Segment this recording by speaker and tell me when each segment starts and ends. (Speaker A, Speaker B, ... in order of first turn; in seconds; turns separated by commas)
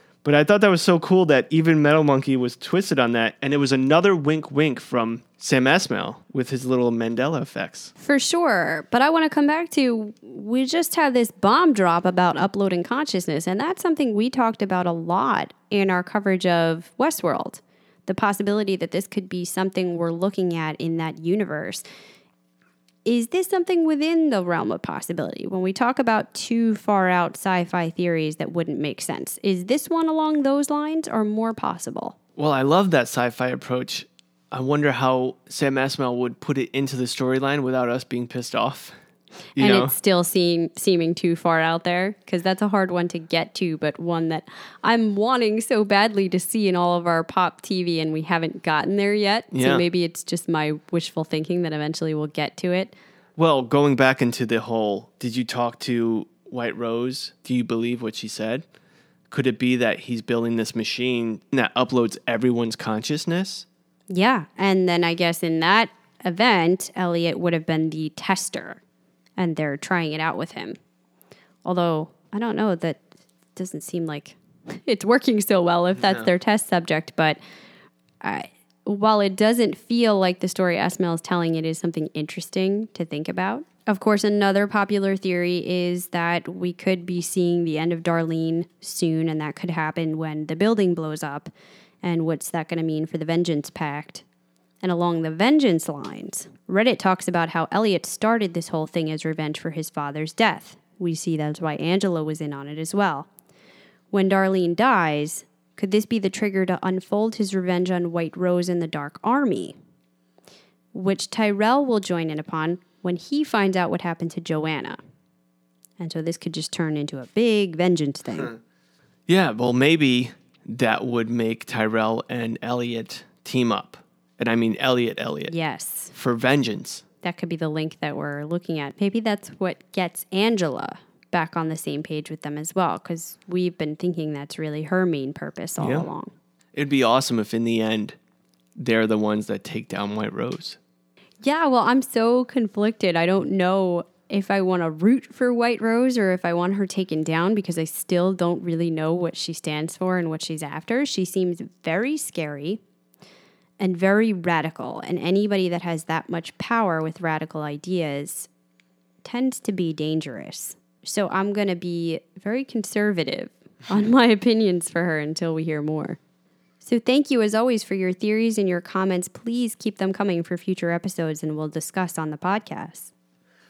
Speaker A: 0.2-7.9, Speaker B: 8.0-21.8, Speaker B: 23.1-32.2, Speaker A: 32.4-39.0, Speaker A: 39.6-39.9, Speaker B: 39.6-52.9, Speaker A: 49.5-49.9, Speaker A: 53.4-58.6, Speaker A: 59.3-63.7, Speaker B: 64.1-68.8, Speaker B: 69.4-70.8, Speaker B: 71.6-77.4, Speaker A: 76.0-76.3, Speaker B: 78.2-91.5, Speaker B: 92.0-94.2, Speaker B: 94.8-103.3, Speaker B: 104.1-109.8, Speaker B: 110.9-115.0, Speaker B: 116.0-118.5, Speaker A: 119.3-125.5, Speaker B: 125.5-126.1, Speaker A: 126.1-127.0, Speaker B: 127.2-136.3, Speaker A: 135.8-136.1, Speaker A: 136.8-138.2, Speaker A: 138.8-140.8, Speaker B: 141.4-152.8, Speaker B: 153.8-158.5, Speaker B: 159.2-166.2, Speaker B: 166.8-173.1